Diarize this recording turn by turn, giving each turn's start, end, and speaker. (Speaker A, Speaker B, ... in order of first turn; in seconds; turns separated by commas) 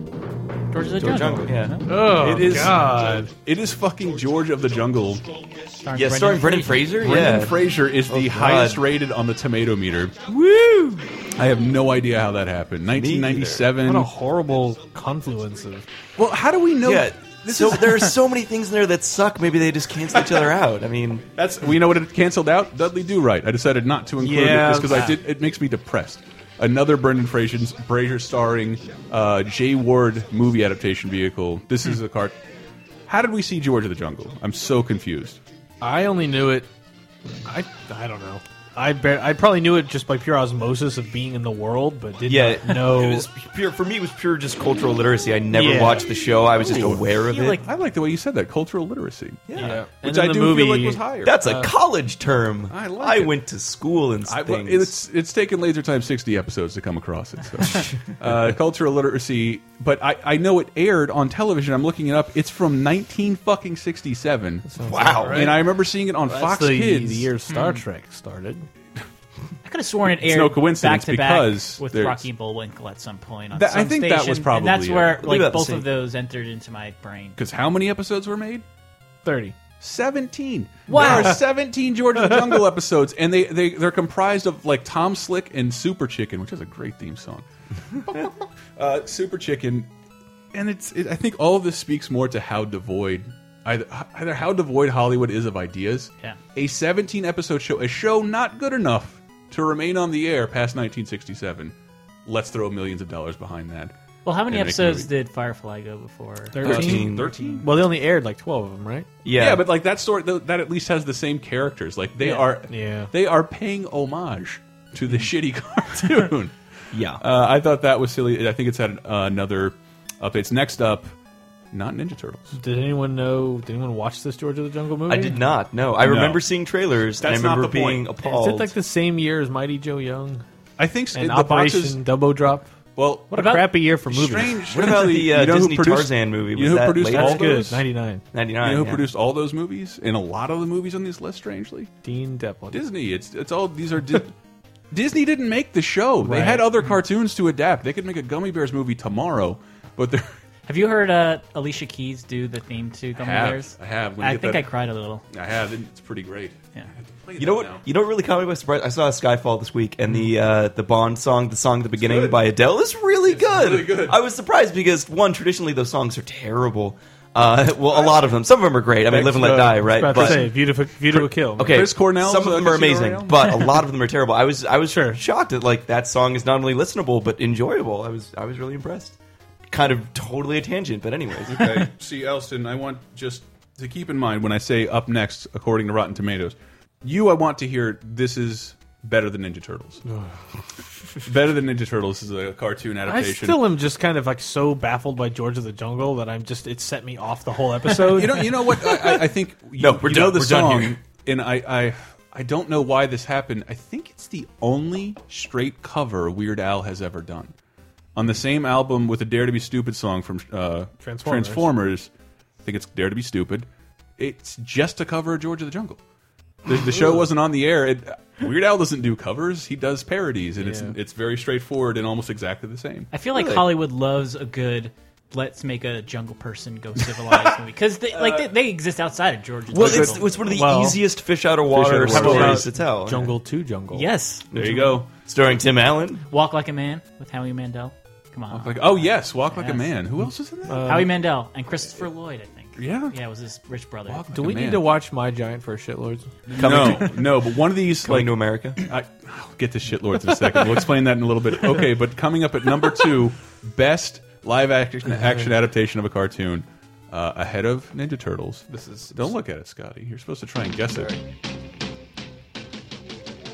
Speaker A: 0.7-1.9, Speaker B: 0.9-1.8, Speaker C: 1.9-3.3, Speaker D: 2.0-5.3, Speaker A: 5.8-7.3, Speaker B: 5.9-8.8, Speaker D: 7.0-10.2, Speaker B: 10.3-11.2, Speaker D: 11.4-14.1, Speaker B: 12.9-13.7, Speaker C: 13.8-15.9, Speaker D: 16.2-18.1, Speaker B: 16.8-21.2, Speaker D: 21.4-32.4, Speaker C: 24.2-25.1, Speaker A: 24.9-25.2, Speaker D: 33.1-35.4, Speaker C: 35.8-36.7, Speaker C: 37.5-43.2, Speaker B: 42.3-47.6, Speaker D: 42.9-43.2, Speaker C: 45.5-46.2, Speaker D: 46.6-51.4, Speaker A: 47.1-47.6, Speaker B: 49.5-49.8, Speaker C: 49.6-51.7, Speaker B: 51.2-54.9, Speaker D: 52.7-53.4, Speaker D: 54.3-67.3, Speaker C: 64.7-65.6, Speaker B: 64.9-65.6, Speaker C: 66.2-68.7, Speaker A: 69.7-77.4, Speaker D: 70.0-72.3, Speaker D: 73.5-75.2, Speaker B: 75.2-75.9, Speaker D: 77.4-78.7, Speaker C: 79.2-79.6, Speaker D: 79.8-87.4, Speaker A: 80.9-81.4, Speaker C: 80.9-81.4, Speaker D: 88.0-89.9, Speaker D: 90.5-101.8, Speaker D: 102.3-103.9, Speaker A: 104.2-106.6, Speaker D: 104.5-105.1, Speaker C: 106.5-109.1, Speaker D: 106.6-107.7, Speaker B: 106.6-107.3, Speaker A: 107.3-107.6, Speaker B: 109.2-109.7, Speaker D: 109.3-116.5, Speaker C: 112.7-113.1, Speaker B: 116.9-117.2, Speaker D: 117.2-121.1, Speaker D: 121.7-122.5, Speaker C: 122.6-125.5, Speaker B: 125.1-128.7, Speaker D: 126.0-126.5, Speaker D: 127.2-128.1, Speaker C: 128.2-130.4, Speaker D: 130.8-132.0, Speaker C: 131.1-132.7, Speaker D: 133.0-137.8, Speaker C: 133.3-134.6, Speaker A: 133.3-133.7, Speaker B: 134.7-137.7, Speaker C: 137.1-138.2, Speaker B: 138.3-139.1, Speaker D: 138.6-141.9, Speaker C: 142.0-142.8, Speaker D: 142.7-144.3, Speaker D: 144.9-150.3, Speaker C: 146.2-146.8, Speaker A: 150.7-155.2, Speaker D: 153.2-154.7, Speaker D: 155.3-156.6, Speaker D: 157.2-157.8, Speaker B: 157.4-170.5, Speaker D: 162.0-162.4, Speaker D: 163.3-164.2, Speaker D: 167.9-168.2, Speaker D: 169.1-173.7, Speaker C: 169.9-171.8, Speaker B: 171.6-179.2, Speaker C: 174.9-175.2, Speaker B: 179.7-181.9, Speaker D: 181.5-190.0, Speaker D: 191.2-193.7, Speaker C: 193.1-198.9, Speaker D: 198.0-207.5, Speaker B: 199.8-201.0, Speaker D: 208.2-212.1, Speaker C: 211.0-211.7, Speaker D: 212.6-213.7, Speaker D: 214.2-216.0, Speaker D: 216.7-223.6, Speaker C: 220.6-221.0, Speaker A: 223.1-230.3, Speaker D: 227.2-227.5, Speaker D: 228.1-228.5, Speaker B: 229.7-233.3, Speaker D: 229.8-230.1, Speaker C: 230.4-231.0, Speaker D: 231.7-232.7, Speaker C: 232.1-234.1, Speaker A: 233.9-234.9, Speaker B: 234.5-236.2, Speaker D: 234.6-235.1, Speaker A: 236.3-239.9, Speaker D: 238.5-241.0, Speaker C: 240.7-241.1, Speaker A: 240.8-244.3, Speaker D: 242.8-243.1, Speaker D: 244.1-244.9, Speaker C: 244.3-246.3, Speaker D: 246.5-261.2, Speaker B: 246.5-247.2, Speaker B: 248.0-248.8, Speaker C: 258.7-259.3